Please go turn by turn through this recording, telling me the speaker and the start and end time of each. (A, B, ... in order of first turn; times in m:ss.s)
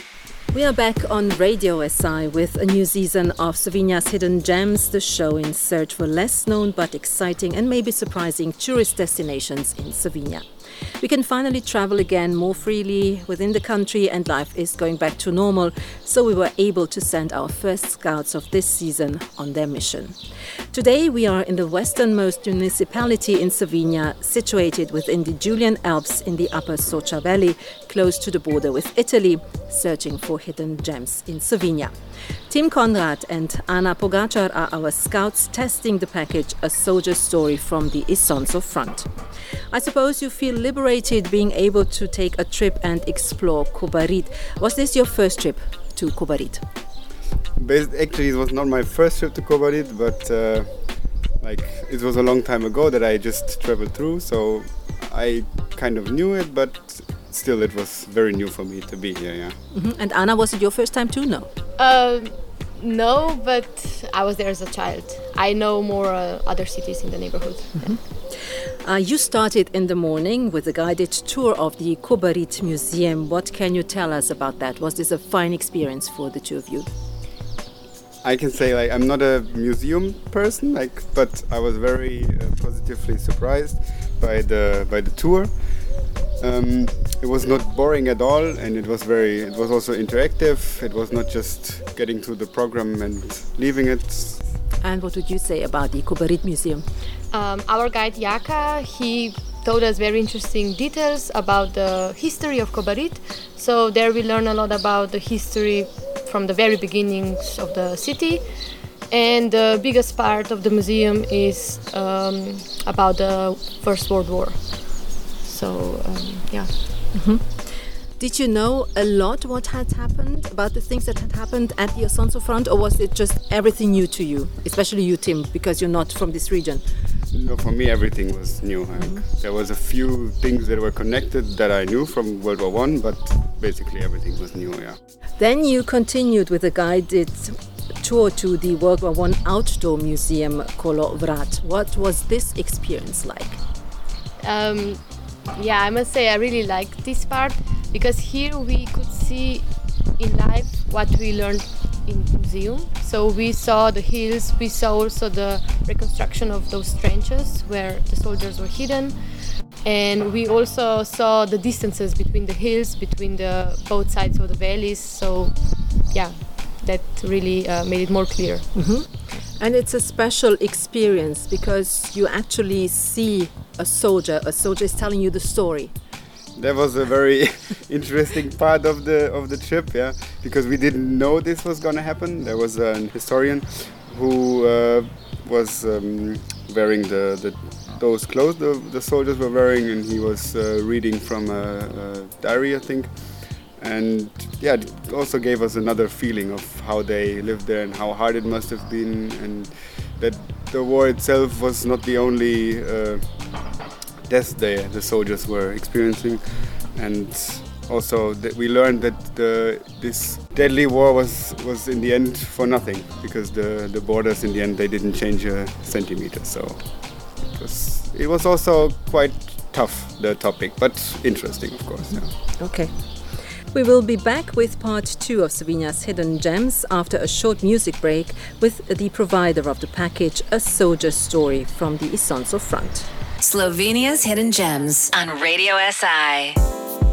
0:00.5-0:10.4 A
0:11.0-0:20.2 A
0:20.7-0:31.9 A
0:32.5-0:39.1 A
0:39.7-0:46.6 A
0:47.6-0:50.8 B
0:51.4-0:59.6 B
0:59.7-1:01.5 A
1:01.8-1:07.8 C
1:08.8-1:16.9 A
1:18.2-1:25.5 B
1:26.4-1:34.4 B
1:34.8-1:36.8 A
1:37.3-1:48.4 C
1:49.1-1:54.6 C
1:55.4-1:56.7 C
1:57.1-2:06.8 A
2:07.3-2:15.0 B
2:15.4-2:23.6 A
2:24.4-2:25.0 C
2:25.6-2:29.6 C
2:30.2-2:39.2 C
2:39.8-2:45.5 C
2:46.1-2:48.7 C
2:48.7-2:49.1 A
2:49.6-2:55.9 A
2:56.5-3:13.1 B
3:13.8-3:23.2 B
3:24.3-3:26.4 B
3:26.9-3:36.8 B
3:37.5-3:42.3 B
3:42.6-3:42.9 A
3:43.7-3:53.1 A
3:53.4-3:56.6 D